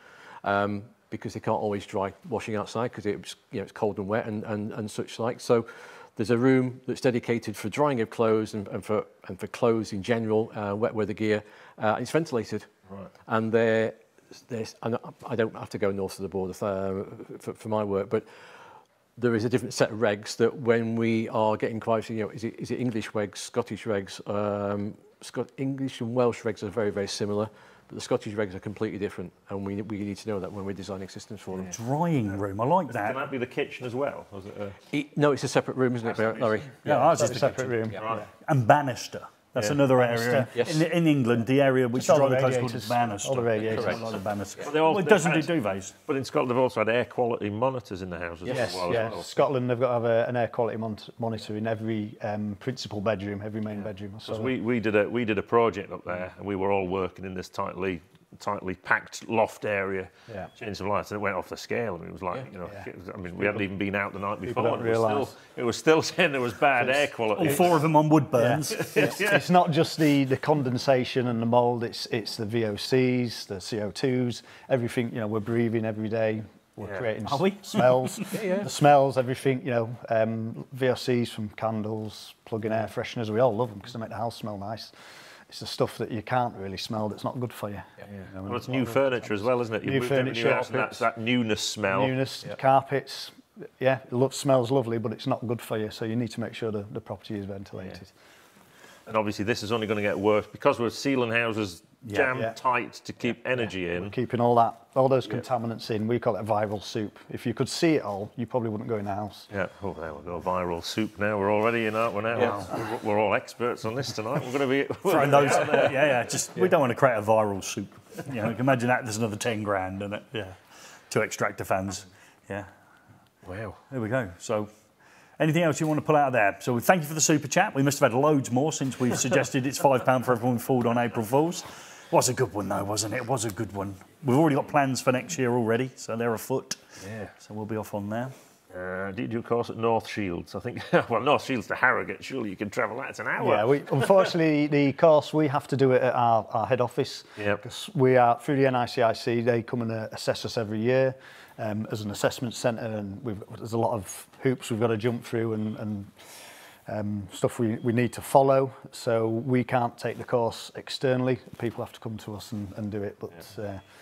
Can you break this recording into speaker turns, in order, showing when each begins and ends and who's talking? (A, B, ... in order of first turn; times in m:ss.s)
0:00.4-0:12.7 A
0:13.3-0:31.8 A
0:31.7-0:33.2 B
0:32.9-0:34.8 C
0:34.9-0:37.3 A
0:36.6-0:37.9 B
0:37.1-0:38.3 D
0:38.0-0:38.2 C
0:38.4-0:45.9 B
0:39.9-0:40.5 D
0:40.5-0:40.9 A
0:41.9-0:44.1 D
0:43.7-0:44.0 A
0:44.6-0:49.3 C
0:48.4-0:49.0 A
0:48.5-0:54.5 D
0:54.2-1:07.8 C
1:03.4-1:03.6 D
1:04.4-1:05.3 D
1:06.8-1:07.5 D
1:07.4-1:08.9 B
1:08.4-1:24.9 D
1:08.7-1:09.5 C
1:17.2-1:18.4 B
1:18.3-1:18.7 A
1:25.5-1:31.1 D
1:28.1-1:32.2 C
1:31.9-1:38.1 D
1:39.0-1:44.1 C
1:42.0-1:42.4 B
1:43.9-1:49.5 D
1:49.5-1:56.2 C
1:52.3-1:52.6 A
1:52.4-1:52.7 B
1:55.1-2:00.6 B
2:01.1-2:02.7 B
2:03.4-2:03.8 A
2:03.9-2:04.7 B
2:05.4-2:16.8 B
2:17.0-2:17.3 C
2:17.4-2:18.3 B
2:18.7-2:24.3 C
2:23.4-2:43.8 D